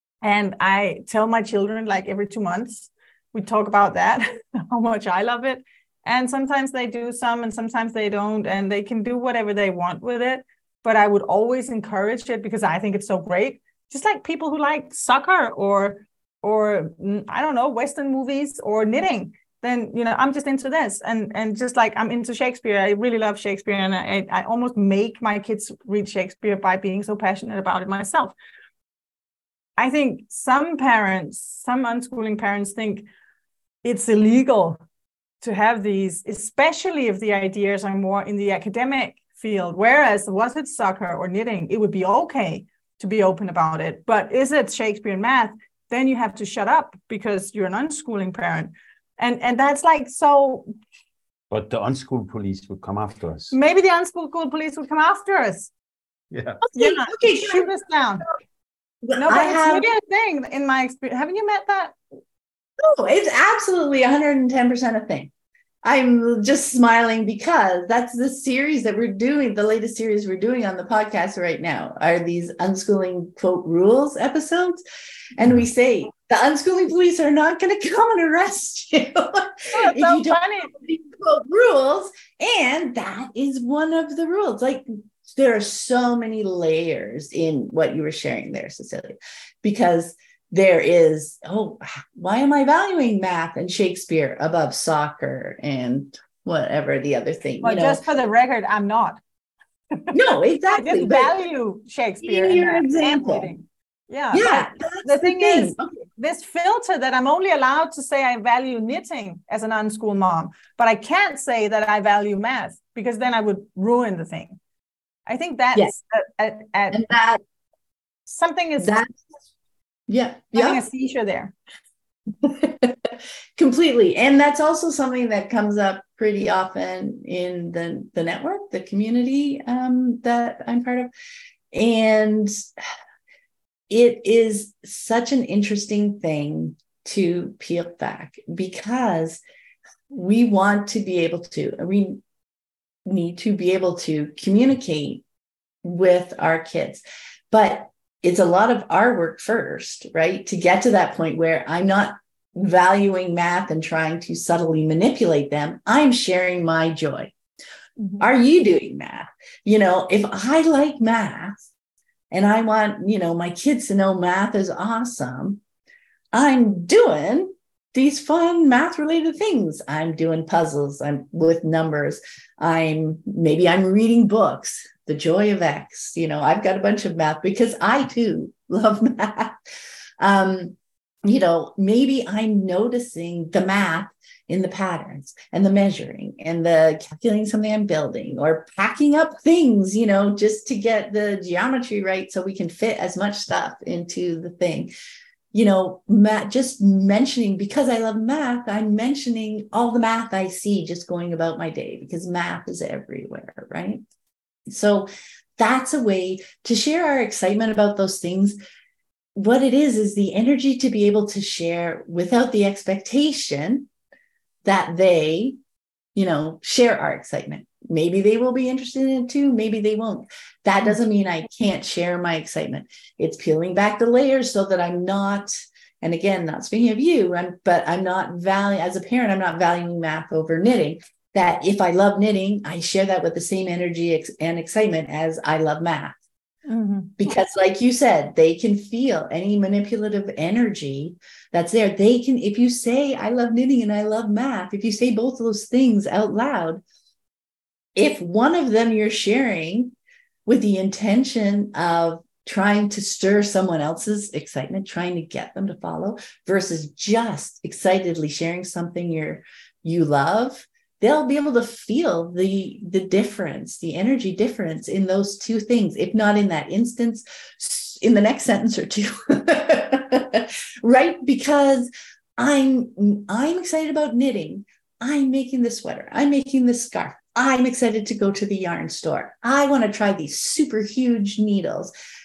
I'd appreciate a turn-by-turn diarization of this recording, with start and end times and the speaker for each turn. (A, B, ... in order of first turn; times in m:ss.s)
0:00.2-0:28.3 A
0:29.8-0:33.0 A
0:33.8-0:34.8 A
0:35.4-0:50.7 A
0:51.5-0:53.6 B
0:53.5-0:55.7 A
0:56.3-0:56.6 B
0:56.6-0:57.7 C
0:56.8-0:58.2 A
0:59.0-0:59.9 C
0:59.2-1:02.0 A
1:02.8-1:05.3 C
1:05.8-1:14.8 C
1:15.4-1:38.0 C
1:19.7-1:20.7 A
1:37.6-1:39.2 A
1:40.1-1:41.3 C
1:40.7-1:54.6 A
1:42.2-1:43.5 C
1:44.3-1:46.0 C
1:55.2-1:57.1 A
1:56.9-1:57.4 C
1:58.2-1:59.0 A
1:58.8-1:59.1 C
2:00.1-2:00.8 C
2:00.5-2:01.5 A
2:02.4-2:03.0 C
2:03.6-2:11.1 C
2:11.7-2:12.5 C
2:13.9-2:19.4 C
2:20.1-2:22.2 C
2:23.1-2:25.2 C
2:25.8-2:37.3 C
2:38.2-2:41.7 C
2:42.3-2:45.6 C
2:46.3-2:59.5 C
3:00.2-3:00.8 C
3:01.3-3:14.9 C
3:15.5-3:24.0 C
3:24.7-3:28.6 C
3:29.3-3:33.9 C
3:34.6-3:35.6 C
3:36.1-3:56.2 C
3:56.6-3:57.3 A
3:57.2-4:06.8 C
4:08.0-4:09.9 C
4:10.4-4:41.9 C